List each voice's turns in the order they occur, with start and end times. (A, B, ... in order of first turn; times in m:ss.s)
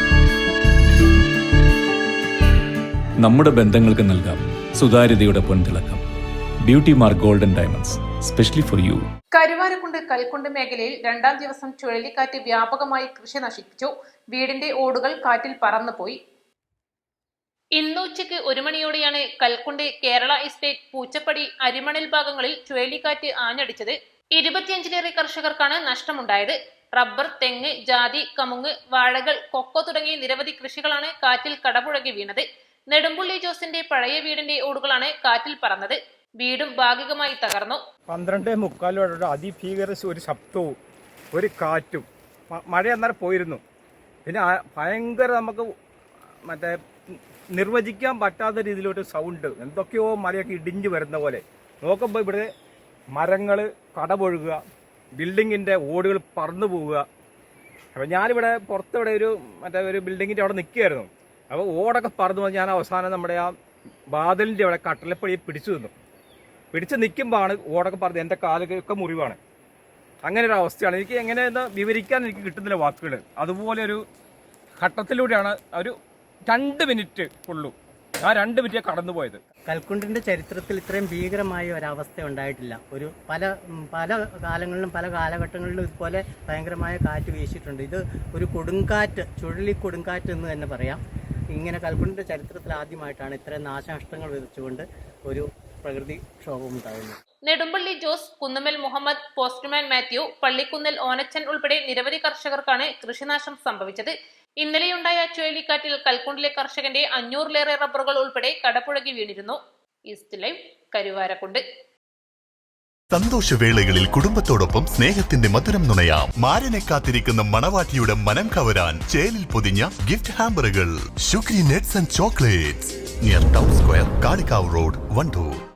0:03.2-0:06.0 A
0:06.6-0:09.1 A
0:09.3-0:16.2 B
0:17.8-0:37.8 B
0:38.1-0:40.8 C
0:41.3-0:43.6 C
0:44.2-0:45.7 C
0:46.4-0:52.5 C
0:53.1-0:54.6 C
0:55.2-0:57.0 C
0:58.0-1:03.5 C
1:04.1-1:05.9 C
1:06.7-1:09.4 C
1:10.2-1:14.0 C
1:14.8-1:16.0 C
1:16.5-1:19.4 C
1:19.7-1:31.0 D
1:31.5-1:37.2 D
1:37.5-1:49.6 B
1:50.1-1:51.6 B
1:53.1-2:05.6 E